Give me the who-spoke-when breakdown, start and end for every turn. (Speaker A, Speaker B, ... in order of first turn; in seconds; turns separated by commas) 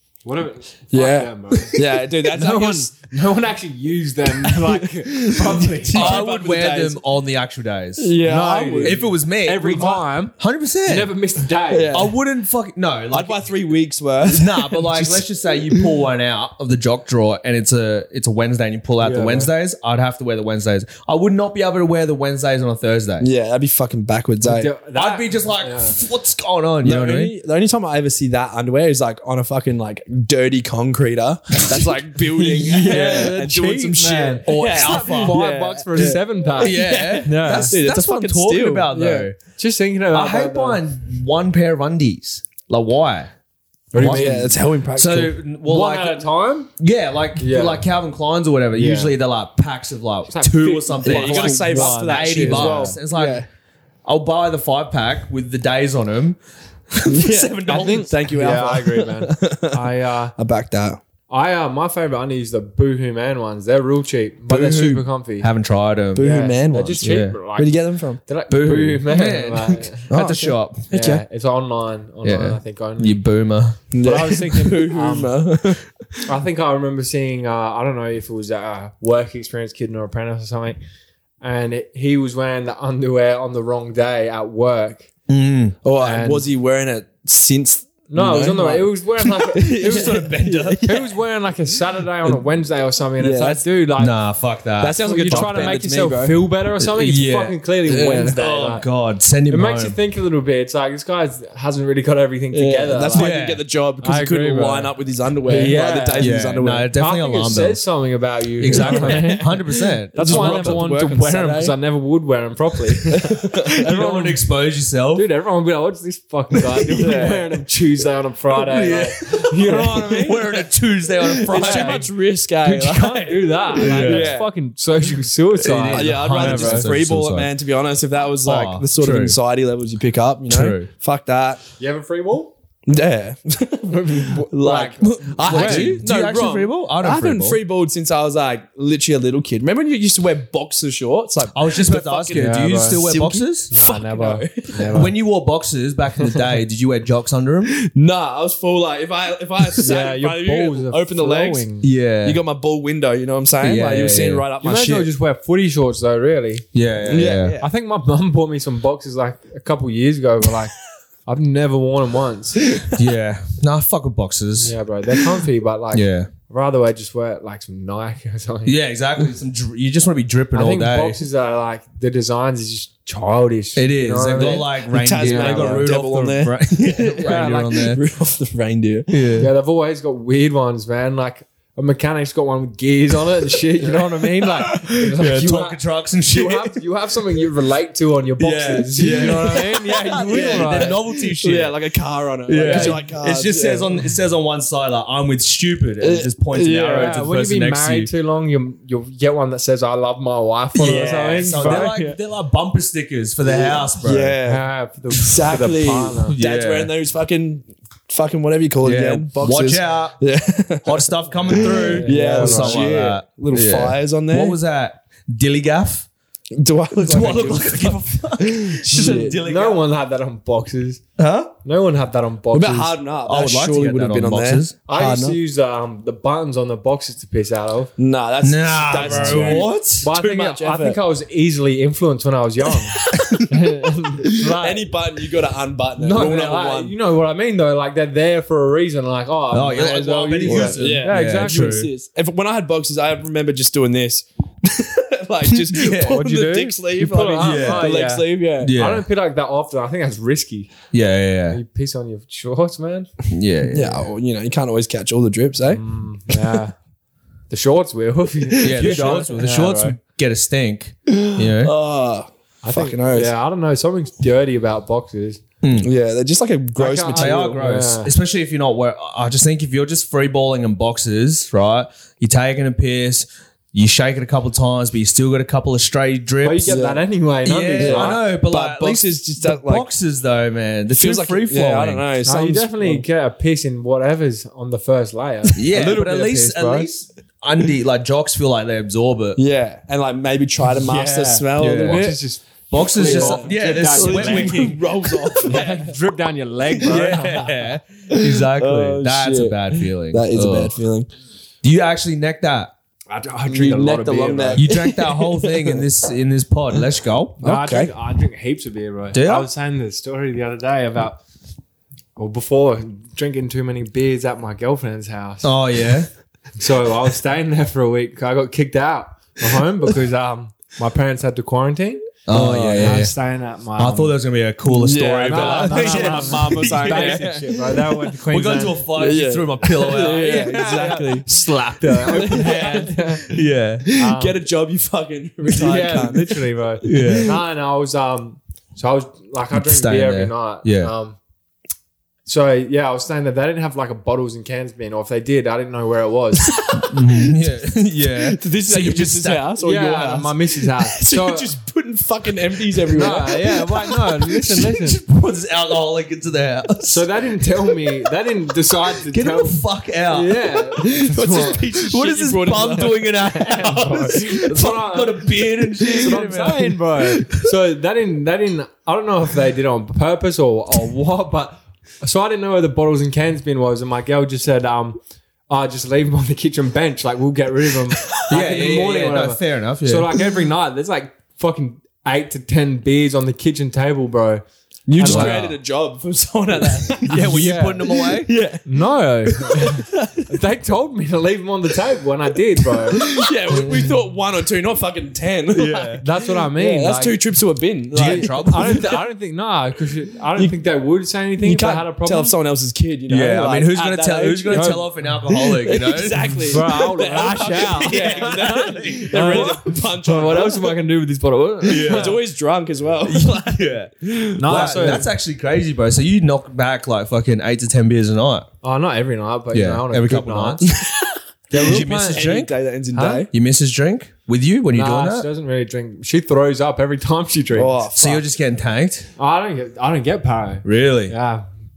Speaker A: 0.2-6.3, Speaker B: 0.9-2.9, Speaker B: 4.4-7.0, Speaker C: 5.9-8.1, Speaker B: 8.0-9.0, Speaker A: 8.2-10.3, Speaker C: 8.8-11.1, Speaker A: 10.8-12.1, Speaker B: 11.7-12.1, Speaker C: 11.9-13.5, Speaker B: 13.1-15.9, Speaker C: 14.2-23.3, Speaker A: 19.0-19.5, Speaker B: 23.2-24.7, Speaker A: 24.4-26.0, Speaker C: 24.9-27.3, Speaker B: 26.8-39.3, Speaker A: 32.4-37.7, Speaker C: 34.5-35.4, Speaker C: 36.6-39.4, Speaker A: 39.6-40.8, Speaker C: 40.1-43.3, Speaker A: 43.9-44.5, Speaker B: 43.9-45.4, Speaker C: 44.0-53.4, Speaker A: 45.7-46.7, Speaker A: 47.4-47.8, Speaker A: 48.7-49.1, Speaker A: 50.3-53.0, Speaker B: 51.0-53.5, Speaker C: 54.0-56.4, Speaker C: 56.9-58.1, Speaker B: 57.0-61.0, Speaker A: 57.7-60.3, Speaker A: 61.3-65.5, Speaker C: 64.5-66.2, Speaker B: 66.1-68.2, Speaker A: 66.2-70.1, Speaker C: 67.0-67.3, Speaker C: 68.5-70.9, Speaker B: 70.1-71.2, Speaker A: 70.9-73.2, Speaker C: 72.2-73.8, Speaker B: 73.9-76.2, Speaker A: 74.0-75.3, Speaker A: 76.2-80.8, Speaker A: 81.4-85.1, Speaker C: 85.3-85.8, Speaker B: 85.8-91.1, Speaker A: 86.0-86.5, Speaker A: 88.1-90.1, Speaker C: 89.6-90.9, Speaker A: 90.8-94.1, Speaker B: 93.2-93.6, Speaker C: 94.0-95.8, Speaker B: 94.8-96.5, Speaker A: 95.0-98.8, Speaker C: 96.8-97.5, Speaker B: 97.9-98.4, Speaker C: 98.3-100.0, Speaker A: 99.5-103.4, Speaker B: 102.5-106.9, Speaker C: 103.1-103.6, Speaker A: 104.0-106.3, Speaker C: 106.2-107.8, Speaker A: 107.0-109.6, Speaker C: 108.6-110.8, Speaker B: 108.7-111.7, Speaker A: 110.1-114.4, Speaker B: 113.0-113.9, Speaker C: 113.7-115.3, Speaker A: 115.1-120.3, Speaker C: 116.8-117.4, Speaker B: 117.0-117.4, Speaker C: 118.5-122.1, Speaker B: 119.6-120.7, Speaker B: 121.2-124.5, Speaker A: 121.5-126.9, Speaker C: 123.8-124.3, Speaker C: 125.6-127.5, Speaker B: 125.9-131.6, Speaker C: 128.4-129.4, Speaker C: 130.5-130.9, Speaker A: 131.8-132.5, Speaker B: 132.8-145.0, Speaker A: 133.8-136.0, Speaker C: 135.0-137.6, Speaker C: 141.5-143.7, Speaker A: 142.3-143.0, Speaker A: 143.7-145.1, Speaker C: 144.9-147.8, Speaker B: 147.7-151.7, Speaker A: 149.8-151.9, Speaker C: 151.8-152.4, Speaker B: 152.2-155.1, Speaker C: 153.6-154.4, Speaker A: 154.6-156.7, Speaker C: 156.7-157.6, Speaker B: 157.0-157.7, Speaker A: 157.6-160.7, Speaker A: 161.2-162.6, Speaker B: 162.7-163.0, Speaker C: 162.9-164.7, Speaker A: 164.6-168.7, Speaker C: 165.9-166.3, Speaker C: 168.7-171.2, Speaker A: 170.5-175.9, Speaker C: 173.8-178.0, Speaker B: 174.5-179.1, Speaker A: 177.1-177.8, Speaker C: 179.1-179.5, Speaker A: 179.4-190.9, Speaker C: 184.6-186.8, Speaker C: 188.4-191.7, Speaker B: 189.1-194.1, Speaker C: 192.5-198.1, Speaker A: 192.6-193.0, Speaker B: 196.0-197.1, Speaker A: 196.7-202.0, Speaker B: 200.7-202.2, Speaker C: 200.8-204.3, Speaker B: 203.4-214.6, Speaker A: 204.4-206.4, Speaker C: 206.3-206.9, Speaker C: 208.8-210.2, Speaker C: 210.8-216.1, Speaker A: 211.6-212.9, Speaker B: 216.5-219.4, Speaker C: 216.9-219.8, Speaker A: 218.9-221.0, Speaker C: 221.2-221.5, Speaker A: 221.6-222.9, Speaker B: 222.5-225.4, Speaker C: 223.2-224.8, Speaker A: 224.9-227.9, Speaker B: 228.0-231.0, Speaker C: 228.4-230.1, Speaker A: 228.9-234.9, Speaker B: 232.9-233.4, Speaker B: 234.2-236.9, Speaker C: 236.0-236.6, Speaker A: 236.1-241.9, Speaker C: 239.5-241.9, Speaker B: 240.4-248.7, Speaker C: 245.6-246.2, Speaker A: 246.0-250.7, Speaker C: 247.4-247.9, Speaker C: 248.6-249.0, Speaker C: 250.9-251.6, Speaker A: 251.5-253.1, Speaker C: 253.3-254.1, Speaker B: 253.7-256.6, Speaker A: 255.7-256.7, Speaker A: 257.5-260.0, Speaker B: 258.5-259.4, Speaker C: 258.6-261.7, Speaker B: 261.1-263.3, Speaker A: 262.6-265.4, Speaker C: 265.6-265.9, Speaker B: 265.8-267.5, Speaker A: 266.8-268.1, Speaker C: 267.0-276.8, Speaker A: 276.4-278.2, Speaker B: 276.6-277.0, Speaker C: 277.4-282.0, Speaker B: 277.8-279.9, Speaker B: 280.9-283.0, Speaker A: 282.2-286.9, Speaker C: 285.6-289.4, Speaker B: 289.4-292.2, Speaker A: 290.6-294.8, Speaker C: 291.6-292.2, Speaker C: 292.7-295.4, Speaker B: 293.0-295.9, Speaker A: 295.4-297.5, Speaker C: 296.8-300.8, Speaker B: 298.1-301.1, Speaker C: 301.6-302.7, Speaker A: 303.1-304.7, Speaker B: 303.5-305.8, Speaker C: 304.6-307.4, Speaker A: 307.4-311.2, Speaker B: 307.4-307.9, Speaker C: 309.1-309.5, Speaker A: 312.1-315.5, Speaker C: 315.4-316.1, Speaker A: 316.6-324.1, Speaker C: 322.3-323.1, Speaker B: 322.3-323.1, Speaker C: 323.8-327.3, Speaker B: 324.7-327.9, Speaker A: 325.2-328.8, Speaker C: 328.3-330.6, Speaker B: 328.9-337.4, Speaker A: 329.8-333.3, Speaker C: 332.0-333.9, Speaker A: 333.9-334.4, Speaker A: 335.4-341.2, Speaker C: 336.8-337.3, Speaker C: 339.5-340.9, Speaker A: 342.2-346.6, Speaker B: 346.7-347.4, Speaker C: 346.7-349.5, Speaker B: 348.2-353.8, Speaker A: 349.6-351.6, Speaker A: 352.9-355.0, Speaker C: 354.2-357.0, Speaker A: 356.8-361.6, Speaker C: 359.1-367.4, Speaker B: 360.8-363.7, Speaker A: 363.4-384.4, Speaker C: 378.3-380.2, Speaker B: 384.9-388.6, Speaker A: 384.9-385.4, Speaker C: 385.1-385.6, Speaker A: 387.0-388.0, Speaker C: 387.0-388.3, Speaker A: 388.6-393.8, Speaker B: 389.3-390.3, Speaker B: 392.6-399.0, Speaker C: 395.5-396.0, Speaker A: 396.0-397.2, Speaker C: 397.9-398.8, Speaker A: 398.0-402.3, Speaker B: 401.4-410.8, Speaker C: 403.1-406.4, Speaker A: 404.5-404.9, Speaker A: 406.4-412.1, Speaker C: 407.6-409.6, Speaker C: 411.6-412.1, Speaker B: 411.7-415.0, Speaker C: 413.1-418.5, Speaker A: 414.4-415.1, Speaker A: 418.6-420.7, Speaker C: 419.5-420.7, Speaker B: 420.7-423.3, Speaker A: 421.5-422.2, Speaker C: 421.5-425.3, Speaker A: 424.7-428.1, Speaker B: 427.5-428.2, Speaker C: 427.9-429.1, Speaker A: 429.2-431.4, Speaker C: 430.6-431.1